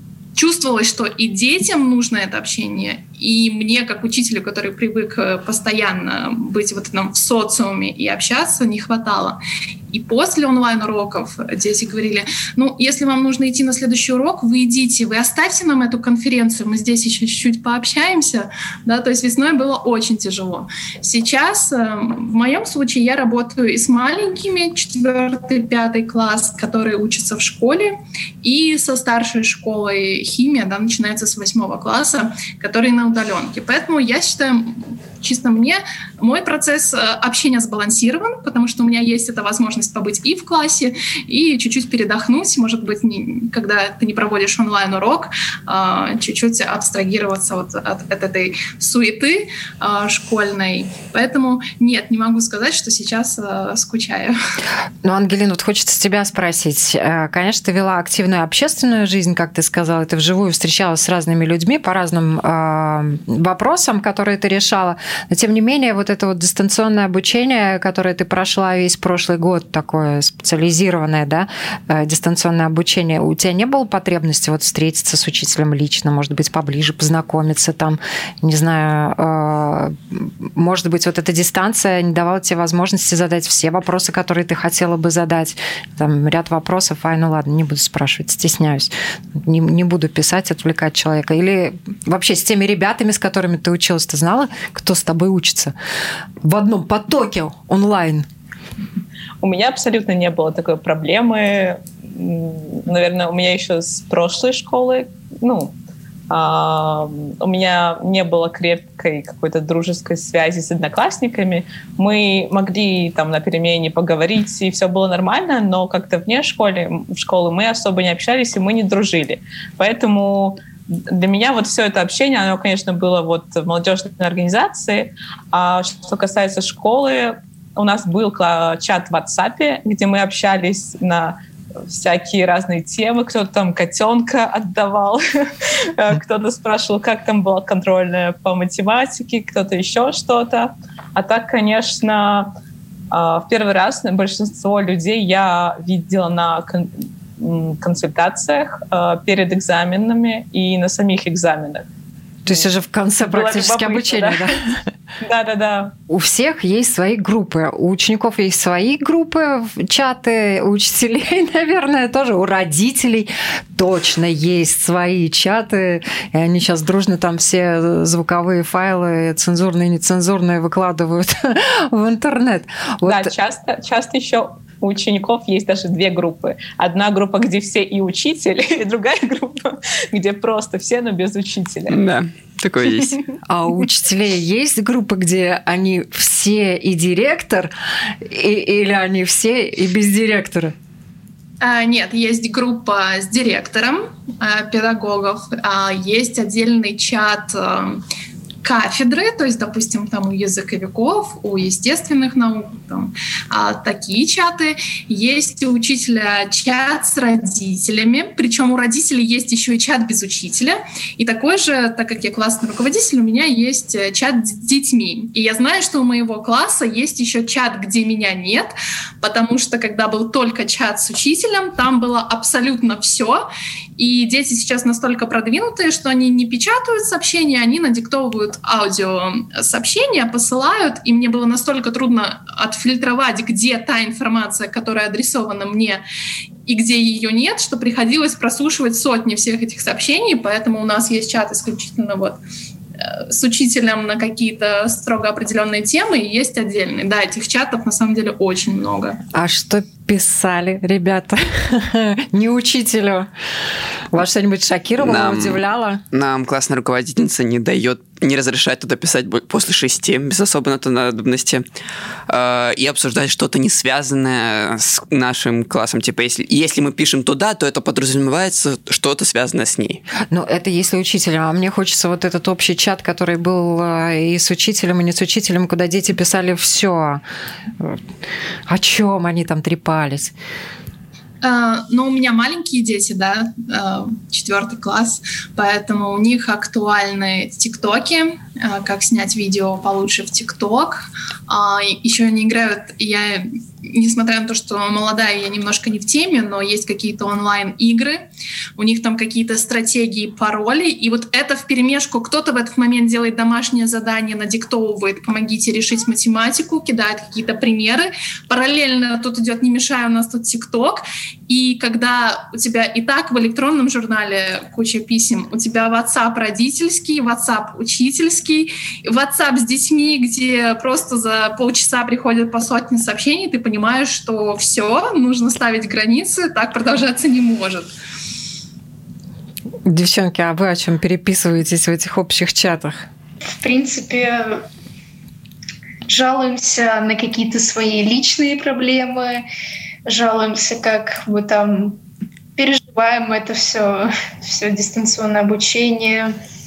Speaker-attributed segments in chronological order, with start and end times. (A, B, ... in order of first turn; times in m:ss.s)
0:00.3-0:54.4 A
0:55.0-1:35.7 B
1:36.4-1:38.2 B
1:39.4-1:45.7 C
1:46.3-2:15.2 C
2:15.9-2:22.5 C
2:23.1-2:31.9 C
2:32.4-2:34.8 B
2:33.2-2:34.6 C
2:35.2-2:35.9 C
2:36.1-2:53.3 B
2:53.0-3:02.0 C
3:01.9-3:03.2 D
3:03.5-3:07.7 B
3:08.2-3:10.7 B
3:11.6-3:18.0 A
3:18.6-3:56.0 A
3:56.6-4:02.4 A
4:03.0-4:09.2 A
4:09.3-4:13.3 B
4:14.1-4:16.0 B
4:15.0-4:21.6 D
4:22.3-4:30.0 D
4:30.3-4:37.2 B
4:38.7-4:40.3 B
4:41.4-4:58.2 A
4:58.8-5:27.9 A
5:29.8-5:33.1 B
5:33.6-5:34.7 E
5:36.1-5:39.4 E
5:40.0-5:42.0 E
5:42.6-5:46.3 E